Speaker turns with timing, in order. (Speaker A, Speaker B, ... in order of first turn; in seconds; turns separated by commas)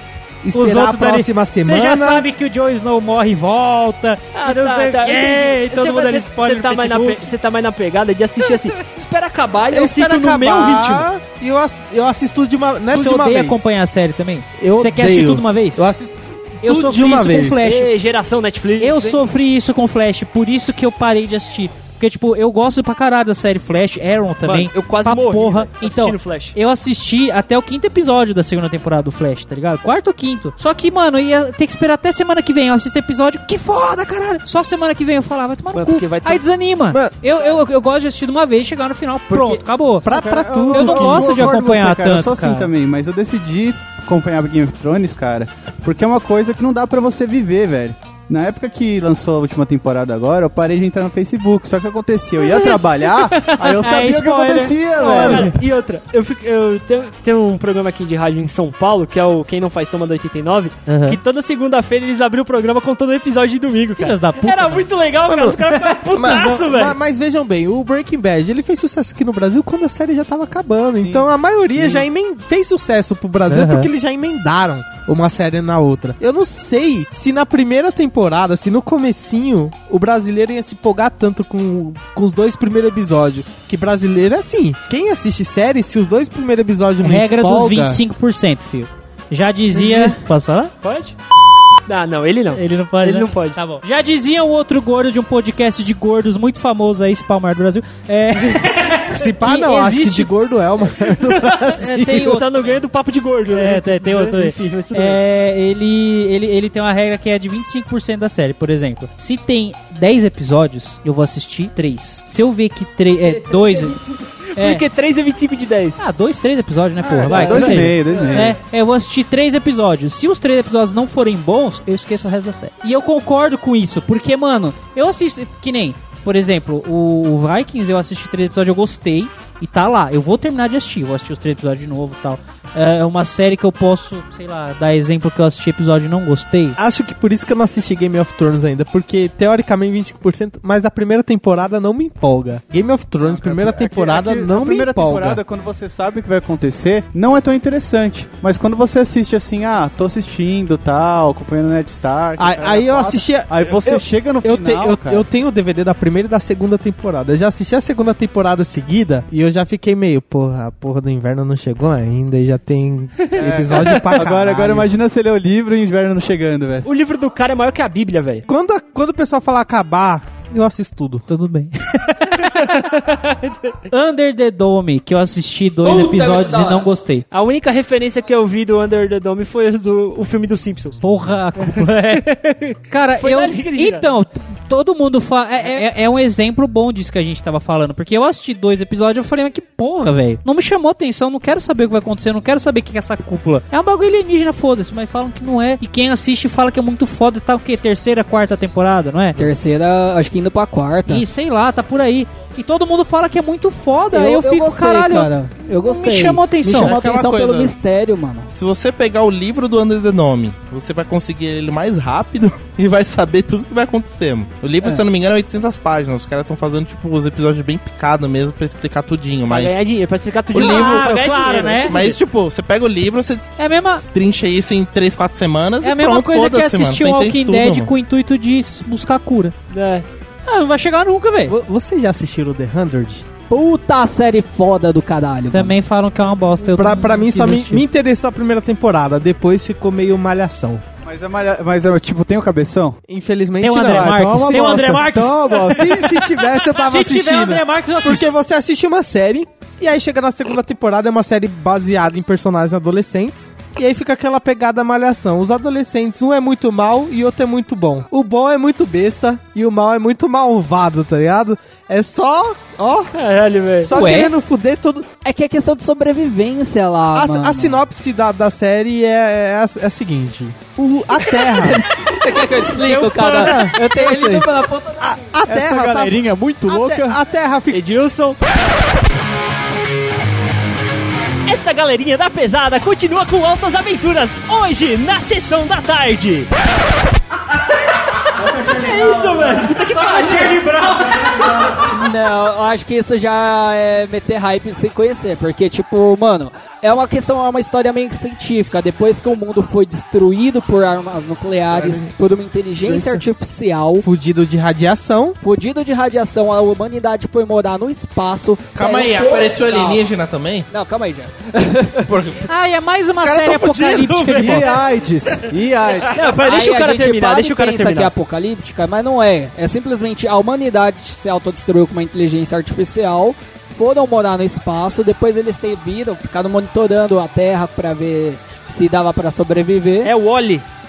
Speaker A: 0.4-2.3, Speaker B: 0.5-7.3, Speaker C: 4.3-11.1, Speaker B: 8.4-8.7, Speaker A: 9.7-13.7, Speaker B: 12.9-15.9, Speaker A: 14.6-17.6, Speaker B: 16.6-17.9, Speaker C: 17.6-19.2, Speaker B: 18.8-40.1, Speaker C: 24.4-26.6, Speaker C: 35.7-36.4, Speaker C: 39.3-39.6, Speaker A: 40.0-41.5, Speaker D: 40.1-55.5, Speaker B: 40.6-42.7, Speaker B: 53.4-55.6, Speaker C: 55.0-67.0, Speaker B: 60.9-61.2, Speaker B: 64.0-64.8, Speaker A: 65.3-88.0, Speaker D: 70.9-72.0, Speaker B: 73.5-73.9, Speaker B: 87.0-90.7, Speaker A: 89.7-90.2, Speaker C: 90.8-91.2, Speaker C: 91.8-93.6, Speaker B: 92.5-100.3, Speaker A: 99.0-102.2, Speaker C: 101.1-105.2, Speaker B: 101.7-102.8, Speaker B: 103.5-114.0, Speaker C: 113.3-116.0, Speaker B: 114.5-114.8, Speaker B: 116.0-136.8, Speaker D: 117.0-118.6, Speaker A: 117.3-117.8, Speaker C: 117.6-118.2, Speaker A: 136.8-145.4, Speaker D: 143.2-155.2, Speaker A: 152.4-164.9, Speaker D: 163.3-166.8, Speaker C: 166.8-168.4, Speaker A: 168.4-171.2, Speaker B: 171.3-173.0, Speaker C: 172.4-173.8, Speaker B: 173.9-177.2, Speaker C: 177.3-181.0, Speaker B: 181.0-182.2, Speaker C: 181.6-184.1, Speaker B: 182.9-199.4, Speaker E: 199.4-201.2, Speaker B: 201.1-205.3, Speaker E: 204.1-208.5, Speaker B: 205.8-206.9, Speaker F: 206.7-207.8, Speaker F: 208.5-219.8, Speaker C: 219.5-222.2, Speaker F: 220.5-227.9, Speaker B: 220.5-222.0, Speaker B: 223.6-224.0, Speaker B: 225.8-229.5, Speaker C: 229.7-230.1, Speaker B: 230.4-231.5, Speaker A: 231.4-233.3, Speaker E: 233.5-235.8, Speaker B: 235.5-237.8, Speaker A: 236.6-240.8, Speaker D: 241.0-243.0, Speaker A: 243.1-263.1, Speaker B: 243.6-248.3, Speaker D: 243.9-246.0, Speaker C: 263.1-263.9, Speaker A: 263.8-265.1, Speaker B: 263.9-264.3, Speaker E: 265.2-267.8, Speaker A: 267.1-272.0, Speaker E: 271.1-275.2, Speaker B: 273.0-273.6, Speaker A: 273.2-274.4, Speaker D: 274.0-274.4, Speaker A: 275.0-277.8, Speaker D: 275.4-277.2, Speaker C: 277.7-278.4, Speaker C: 281.4-286.5, Speaker C: 287.9-291.8, Speaker D: 288.4-289.5, Speaker B: 289.9-291.4, Speaker E: 291.9-304.1, Speaker A: 301.7-302.1, Speaker A: 302.8-303.2, Speaker A: 304.0-305.4, Speaker E: 305.4-310.1, Speaker F: 308.7-310.7, Speaker E: 310.7-312.1, Speaker F: 312.1-312.5, Speaker B: 312.4-314.8, Speaker F: 313.1-316.1, Speaker D: 314.3-316.2, Speaker C: 316.1-318.1, Speaker E: 316.4-330.1, Speaker C: 330.0-330.6